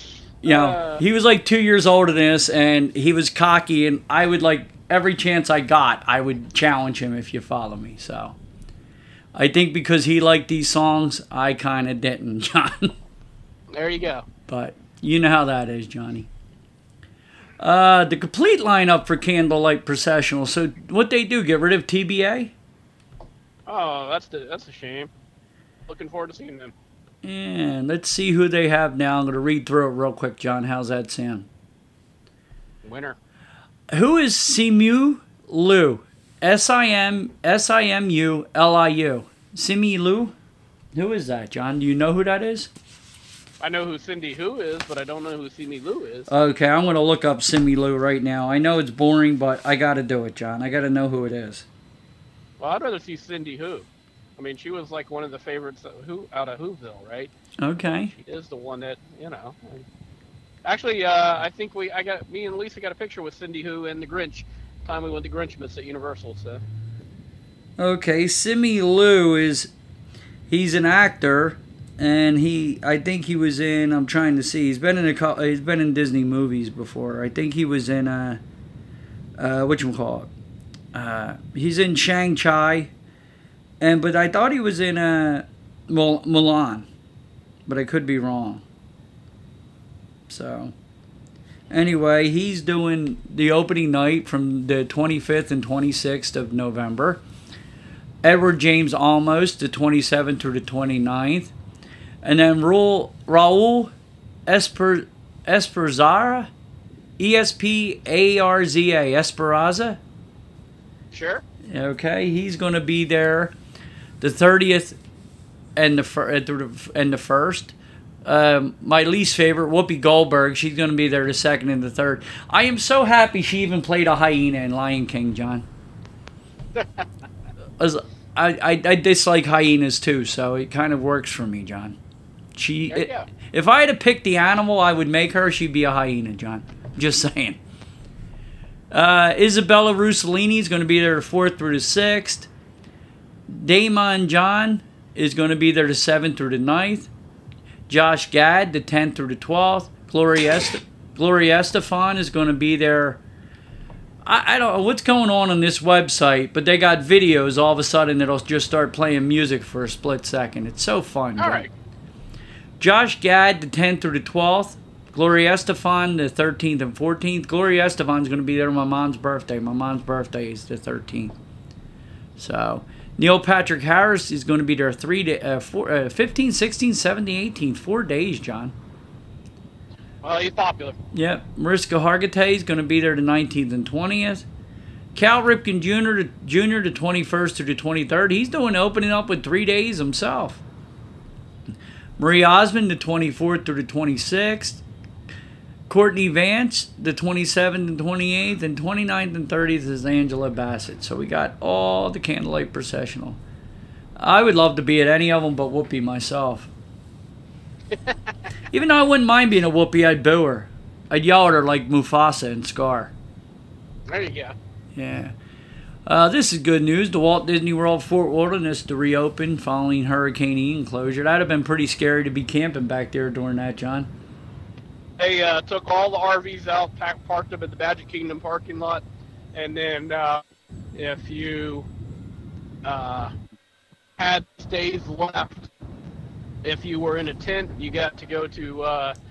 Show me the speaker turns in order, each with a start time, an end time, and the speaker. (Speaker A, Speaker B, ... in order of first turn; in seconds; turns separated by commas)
Speaker A: 0.4-8.4, Speaker B: 0.5-1.0, Speaker A: 9.3-12.9, Speaker B: 13.7-14.3, Speaker A: 14.5-16.3, Speaker A: 17.6-22.5, Speaker B: 23.7-25.1, Speaker B: 25.9-26.7, Speaker A: 27.2-31.5, Speaker B: 32.8-33.2, Speaker A: 33.9-40.3, Speaker A: 41.0-42.7, Speaker B: 43.6-46.3, Speaker A: 46.3-51.7, Speaker B: 52.6-57.3, Speaker A: 57.6-58.1, Speaker B: 58.1-59.9, Speaker B: 60.6-66.6, Speaker A: 67.8-69.7, Speaker A: 70.5-78.4, Speaker A: 79.4-80.3, Speaker A: 80.9-82.9, Speaker A: 83.8-86.9, Speaker A: 87.7-88.6, Speaker A: 90.3-90.7, Speaker A: 91.7-97.2, Speaker A: 98.2-101.5, Speaker A: 102.2-103.9, Speaker A: 104.5-106.5, Speaker A: 107.2-110.0, Speaker B: 111.1-111.4, Speaker A: 111.7-113.5, Speaker A: 114.2-115.0, Speaker A: 115.8-117.7, Speaker A: 118.2-125.7, Speaker B: 126.7-127.1, Speaker A: 127.8-132.0, Speaker A: 132.6-137.6, Speaker B: 132.9-133.3, Speaker A: 138.9-142.5, Speaker A: 143.5-147.1, Speaker A: 147.9-153.2, Speaker A: 154.2-161.7, Speaker B: 161.4-161.7, Speaker A: 162.8-171.3, Speaker A: 172.4-178.8, Speaker B: 180.2-181.0, Speaker A: 181.1-184.4, Speaker A: 185.2-190.6, Speaker A: 192.2-194.8, Speaker A: 195.9-203.4, Speaker A: 204.2-206.7, Speaker A: 208.7-213.1, Speaker B: 214.1-214.6, Speaker A: 214.9-215.3, Speaker A: 216.1-224.1, Speaker B: 225.2-230.4, Speaker B: 230.9-231.9, Speaker B: 232.8-233.3, Speaker B: 234.2-235.7, Speaker B: 236.6-239.2